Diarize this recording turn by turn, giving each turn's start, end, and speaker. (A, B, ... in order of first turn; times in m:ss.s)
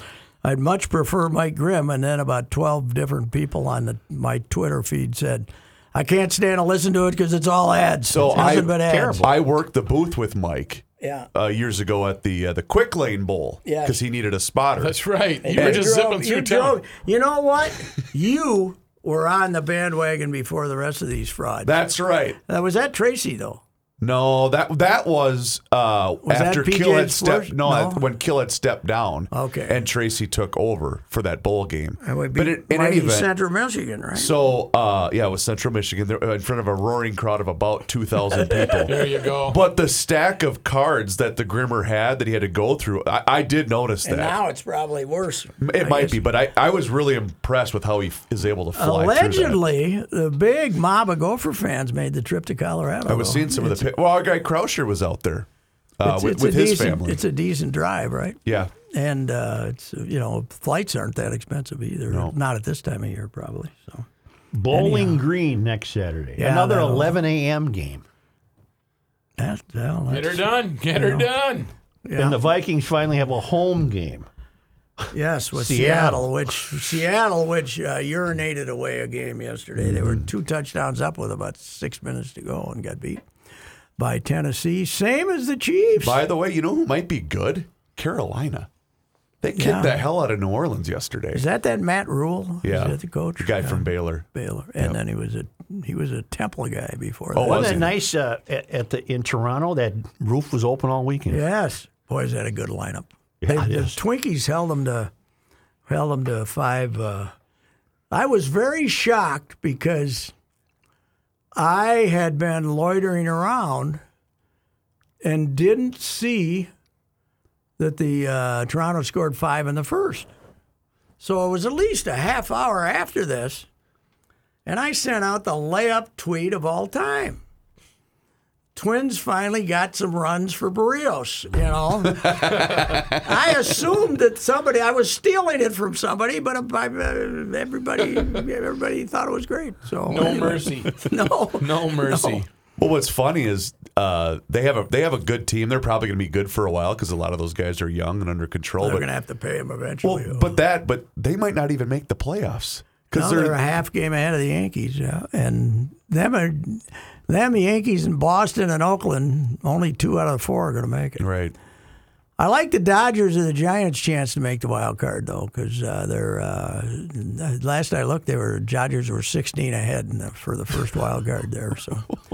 0:00.4-0:09.3 A
0:08.1-0:15.0 B
0:08.3-0:09.3 C
0:11.0-0:11.3 A
0:13.6-0:14.0 A
0:14.8-0:16.8 D
0:15.4-0:21.8 A
0:15.6-0:15.9 B
0:21.6-0:22.4 B
0:22.5-0:23.6 A
0:24.0-0:33.3 B
0:26.2-0:28.0 A
0:29.3-0:29.8 A
0:32.0-0:34.3 A
0:34.2-0:44.4 B
0:38.4-0:38.9 A
0:38.9-0:39.6 D
0:44.0-0:46.2 A
0:45.6-0:49.6 B
0:48.7-0:53.9 A
0:53.1-0:55.5 B
0:56.0-0:57.2 B
0:56.0-1:04.1 A
0:58.4-0:58.7 B
1:02.1-1:02.3 B
1:04.5-1:08.0 C
1:04.7-1:05.2 A
1:06.4-1:07.2 A
1:09.4-1:11.3 A
1:10.1-1:11.7 D
1:12.1-1:12.4 A
1:12.2-1:14.3 C
1:15.1-1:23.2 A
1:15.5-1:16.5 C
1:19.8-1:20.2 B
1:24.0-1:26.2 A
1:26.0-1:28.7 B
1:29.4-1:31.4 B
1:29.6-1:30.0 A
1:31.3-1:37.9 A
1:32.6-1:34.3 B
1:37.3-1:37.9 B
1:37.4-1:41.4 C
1:41.3-1:45.1 A
1:43.4-1:44.0 C
1:45.9-1:47.3 A
1:48.1-1:50.3 A
1:51.6-1:54.0 A
1:55.2-1:56.7 A
1:57.8-2:00.3 A
2:01.2-2:03.7 A
2:04.7-2:07.4 A
2:08.8-2:22.4 A
2:12.2-2:13.2 B
2:20.1-2:22.5 D
2:22.8-2:29.1 B
2:28.8-2:30.6 A
2:30.0-2:33.6 B
2:33.1-2:41.2 A
2:41.2-2:41.6 B
2:42.4-2:52.1 A